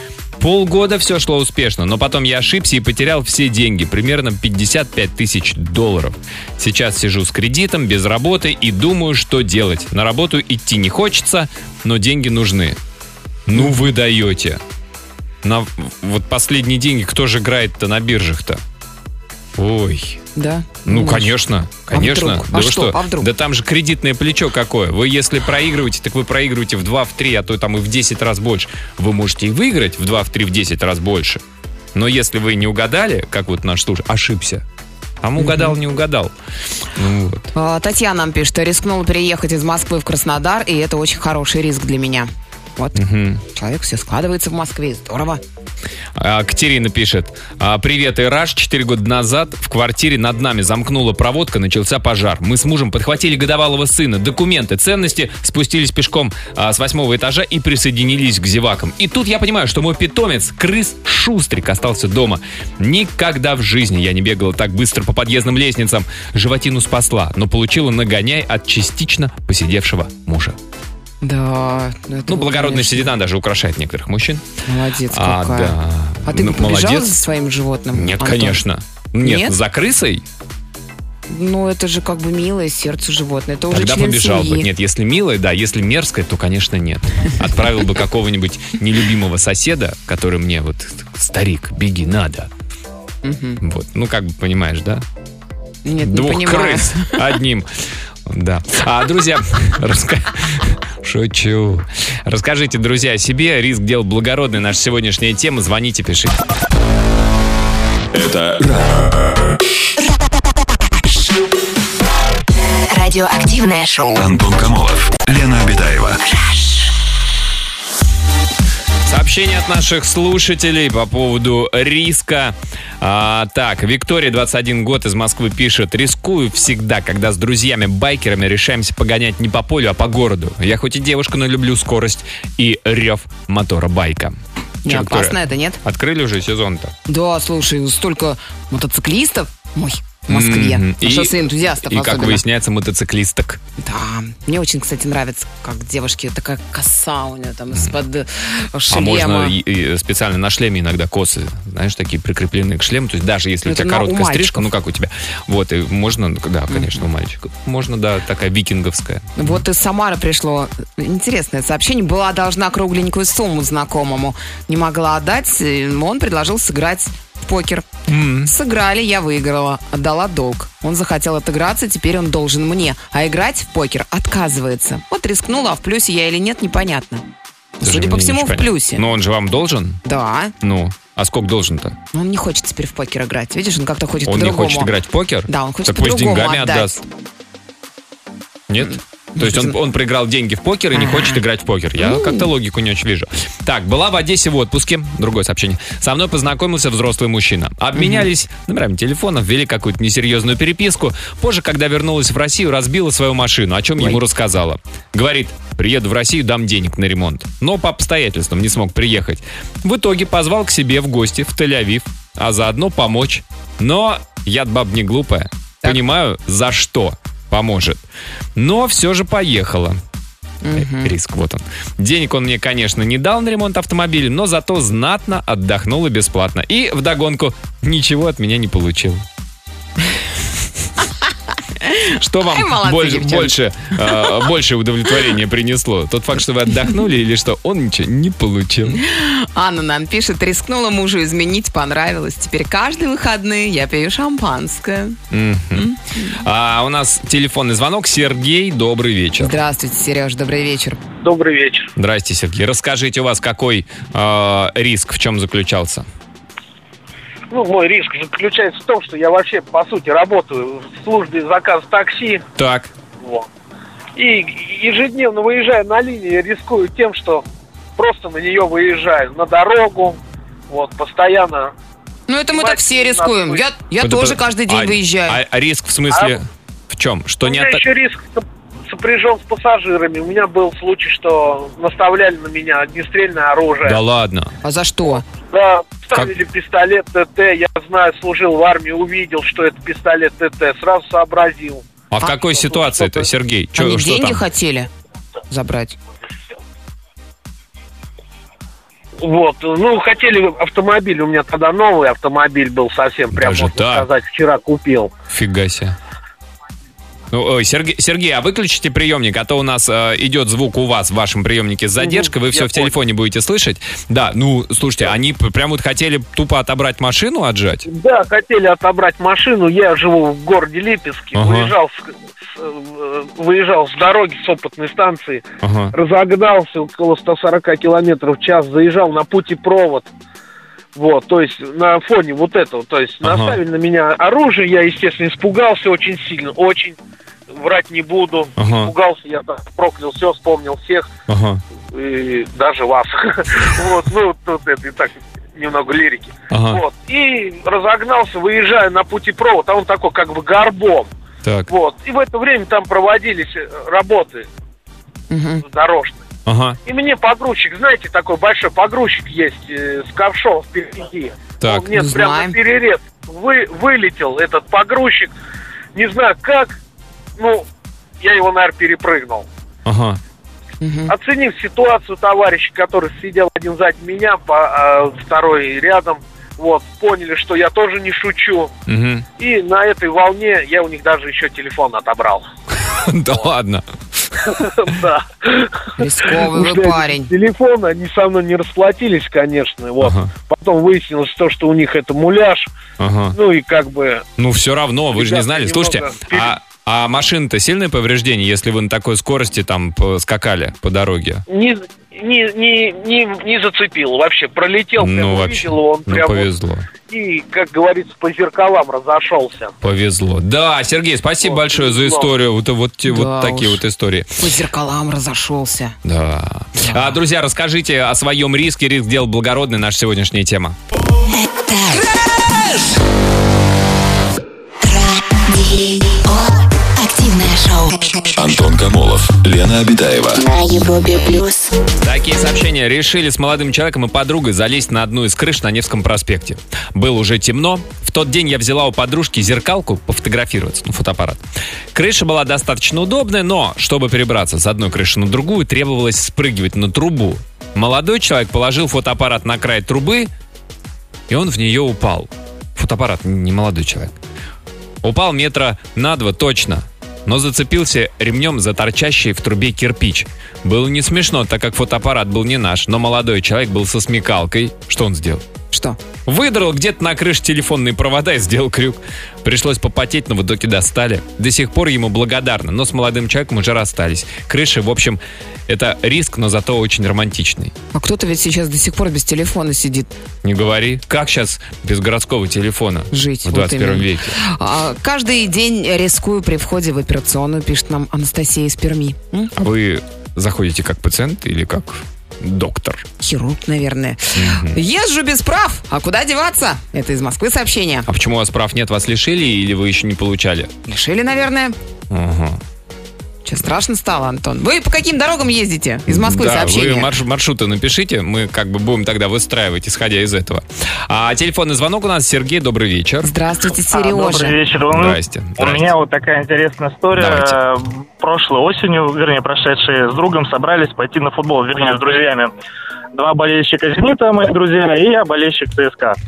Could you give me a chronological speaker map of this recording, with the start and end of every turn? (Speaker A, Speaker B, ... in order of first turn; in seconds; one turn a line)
Speaker A: 0.4-12.8
Speaker A: 13.5-14.6
Speaker A: 15.4-18.6
Speaker A: 19.6-20.2
Speaker B: 20.3-21.4
Speaker A: 20.9-31.4
Speaker B: 21.9-23.3
Speaker A: 31.9-34.6
Speaker A: 35.2-36.3
Speaker B: 35.4-35.8
Speaker A: 36.9-37.5
Speaker B: 37.5-45.4
Speaker A: 42.9-43.4
Speaker A: 46.1-70.6
Speaker B: 71.2-73.1
Speaker A: 72.3-74.4
Speaker B: 74.7-78.6
Speaker A: 75.1-77.1
Speaker A: 77.9-80.2
Speaker B: 79.2-79.5
Speaker B: 81.3-84.7
Speaker A: 83.7-92.5
Speaker B: 93.2-93.6
Speaker A: 93.6-95.0
Speaker B: 95.8-97.3
Speaker A: 96.0-97.7
Speaker A: 98.2-106.4
Speaker C: 108.1-109.6
Speaker D: 112.9-114.3
Speaker C: 114.2-116.2
Speaker D: 116.3-116.8
Speaker A: 119.0-136.9
Speaker B: 134.8-135.8
Speaker B: 137.1-142.4
Speaker A: 140.3-143.6
Speaker B: 143.8-149.5
Speaker A: 148.9-159.6
Speaker B: 153.6-154.7
Speaker B: 156.7-157.0
Speaker B: 159.4-167.9
Speaker A: 168.1-168.5
Speaker B: 168.4-177.2
Speaker B: 177.8-179.0
Speaker A: 177.8-180.0
Speaker B: 180.0-180.5
Speaker A: 180.6-182.0
Speaker B: 182.1-184.9
Speaker A: 184.2-187.0
Speaker B: 185.5-187.0
Speaker A: 188.7-218.0
Speaker B: 189.3-189.8
Speaker B: 190.9-191.4
Speaker B: 192.0-192.5
Speaker B: 197.9-198.3
Speaker A: 218.6-220.0
Speaker B: 220.6-221.1
Speaker A: 220.7-229.2
Speaker B: 231.8-234.5
Speaker A: 232.1-239.0
Speaker B: 238.9-245.2
Speaker A: 245.3-249.6
Speaker B: 245.7-246.4
Speaker B: 249.4-251.0
Speaker E: 251.2-251.9
Speaker A: 251.9-256.1
Speaker E: 257.5-262.4
Speaker A: 262.6-262.9
Speaker E: 263.2-263.5
Speaker E: 264.1-267.4
Speaker E: 268.0-271.7
Speaker B: 272.3-275.4
Speaker E: 272.5-273.6
Speaker A: 274.0-277.8
Speaker E: 276.1-276.4
Speaker E: 277.4-284.0
Speaker A: 283.8-284.5
Speaker B: 284.6-285.2
Speaker E: 285.4-291.8
Speaker A: 292.1-294.4
Speaker E: 292.4-293.3
Speaker B: 293.7-294.9
Speaker B: 295.5-296.0
Speaker E: 299.2-305.1
Speaker A: 303.3-304.1
Speaker A: 305.3-305.9
Speaker A: 307.3-317.9
Speaker E: 312.0-312.9
Speaker E: 317.9-330.1
Speaker A: 321.3-321.7
Speaker A: 325.6-325.9
Speaker E: 330.9-337.0
Speaker A: 333.2-333.6
Speaker E: 337.5-341.1
Speaker A: 338.6-338.9
Speaker A: 341.3-341.6
Speaker E: 341.9-351.1
Speaker A: 346.5-346.8
Speaker A: 351.4-351.7
Speaker E: 351.7-354.5
Speaker B: 355.3-355.6
Speaker E: 355.6-356.2
Speaker A: 356.4-356.8
Speaker E: 356.9-365.3
Speaker A: 361.6-361.9
Speaker B: 361.9-362.6
Speaker E: 365.9-366.8
Speaker E: 367.4-367.6
Speaker E: 368.2-369.5
Speaker A: 369.9-370.2
Speaker B: 370.8-371.1
Speaker E: 371.1-378.7
Speaker A: 378.9-379.2
Speaker E: 379.4-382.4
Speaker A: 382.8-384.6
Speaker E: 384.4-392.7
Speaker B: 386.0-387.3
Speaker A: 390.0-390.3
Speaker A: 393.0-393.4
Speaker E: 393.3-394.2
Speaker A: 394.4-401.4
Speaker E: 395.1-396.5
Speaker E: 401.5-406.5
Speaker A: 405.0-406.9
Speaker E: 407.0-409.7
Speaker A: 409.8-414.4
Speaker E: 411.4-412.3
Speaker B: 413.1-413.8
Speaker B: 414.4-416.0
Speaker A: 416.0-420.8
Speaker D: 421.3-422.1
Speaker D: 424.8-428.6
Speaker C: 428.3-430.4
Speaker D: 430.4-431.7
Speaker A: 432.0-441.4
Speaker A: 441.9-450.3
Speaker A: 451.3-454.2
Speaker A: 455.0-465.4
Speaker B: 465.7-466.0
Speaker A: 466.2-477.7
Speaker B: 477.9-480.1
Speaker A: 480.4-484.4
Speaker B: 483.1-489.5
Speaker A: 489.5-493.0
Speaker B: 493.2-498.1
Speaker A: 494.3-494.8
Speaker A: 498.1-500.7
Speaker B: 500.9-501.7
Speaker A: 502.1-502.6
Speaker B: 503.4-507.1
Speaker A: 506.1-513.3
Speaker B: 513.2-514.6
Speaker F: 513.9-522.5
Speaker A: 514.9-515.9
Speaker A: 517.1-517.6
Speaker F: 523.1-526.2